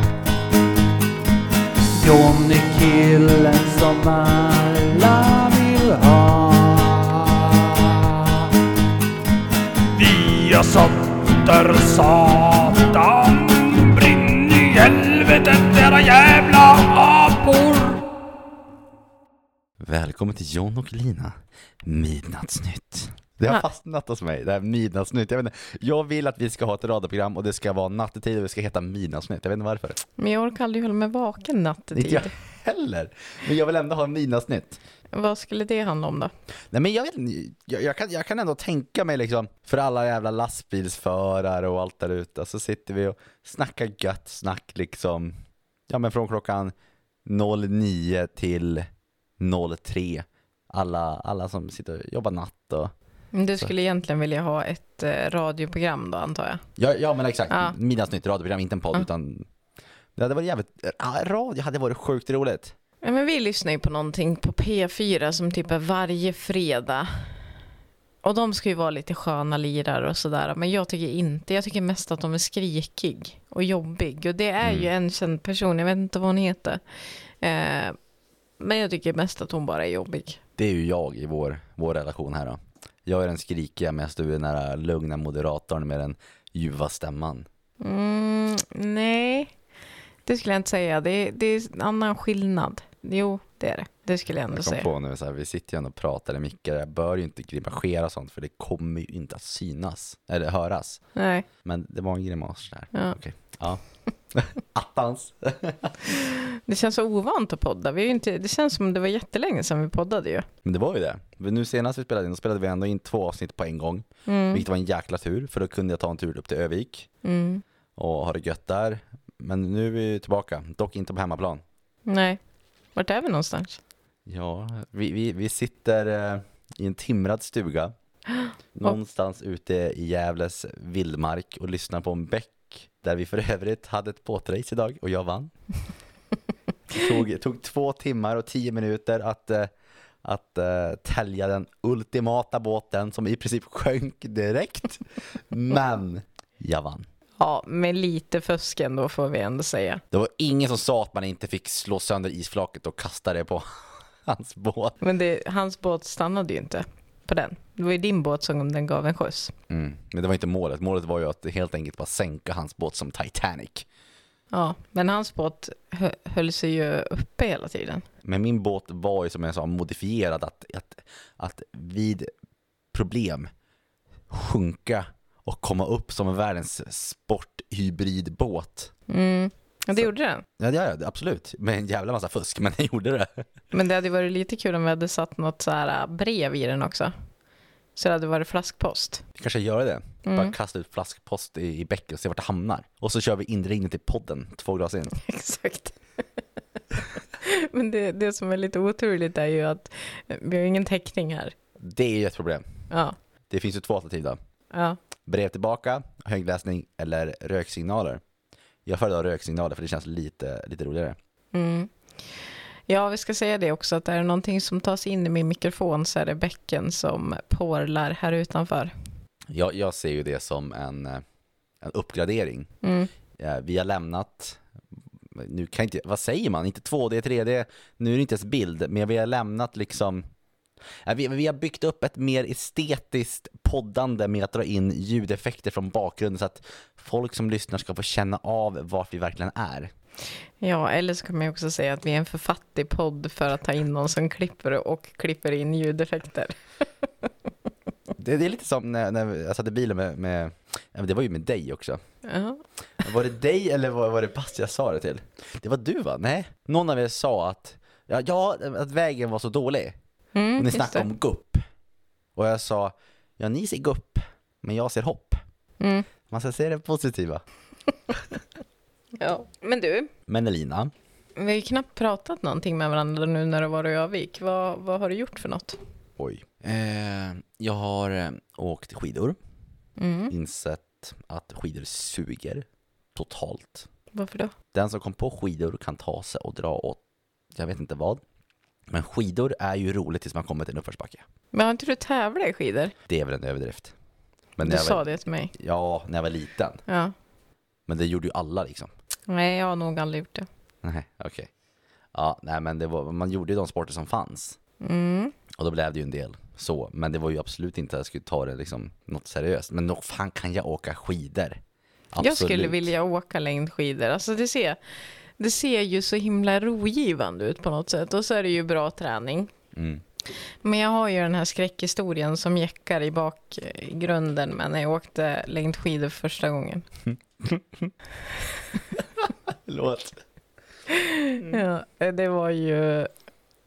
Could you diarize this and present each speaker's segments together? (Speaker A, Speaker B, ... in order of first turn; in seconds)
Speaker A: 1.9-8.2, 9.9-18.0
Speaker B: 19.8-30.0, 31.9-34.8, 36.7-45.3, 45.9-46.7, 47.2-48.9, 49.4-52.9, 56.8-59.5, 60.1-62.7, 74.6-74.9, 80.6-87.5, 94.5-101.0, 101.6-103.8, 104.3-106.2, 110.6-117.1, 118.0-121.6, 124.2-127.9, 128.7-135.5, 136.9-139.7, 140.2-147.1, 150.1-155.0, 159.7-163.9, 168.2-172.3, 172.9-173.5, 174.3-178.9, 180.6-183.4, 189.3-195.1, 201.8-202.8, 203.5-204.4, 205.2-208.2, 208.8-211.2, 219.5-221.2, 221.8-222.7, 223.4-224.6, 225.3-230.2, 231.0-239.9, 248.2-252.0, 253.0-259.9, 260.6-261.6, 262.3-265.4, 266.3-267.4, 270.3-270.9, 276.2-279.4, 280.3-283.9, 284.7-287.0, 287.5-288.2, 288.9-291.2, 293.1-293.9, 294.6-295.0, 295.5-296.8, 297.9-298.9, 300.8-301.5, 302.1-304.6, 305.5-311.6, 312.1-312.9, 319.7-320.0, 327.1-327.9, 328.9-330.2
Speaker C: 30.2-32.3, 35.1-36.3, 53.3-56.6, 57.5-57.7, 63.0-67.4, 68.2-76.8, 77.4-78.0, 78.6-80.4, 87.8-89.5, 90.2-94.9, 101.2-101.4, 106.2-110.5, 114.3-114.6, 117.2-117.6, 122.1-122.4, 122.9-123.8, 128.3-128.9, 147.4-150.0, 155.0-159.5, 164.5-168.0, 179.1-180.4, 183.7-187.1, 187.9-189.2, 190.2-190.5, 195.2-196.0, 197.4-201.5, 202.9-203.2, 204.7-205.0, 211.5-218.9, 222.8-223.1, 240.6-246.6, 252.2-252.6, 260.3-261.1, 265.8-266.1, 269.2-270.1, 271.4-275.8, 280.0-280.3, 284.1-284.5, 291.5-292.9, 294.6-295.5, 296.9-297.1, 299.3-300.5, 304.8-305.3, 312.2-314.8, 315.4-319.5, 320.6-326.8, 330.9-333.1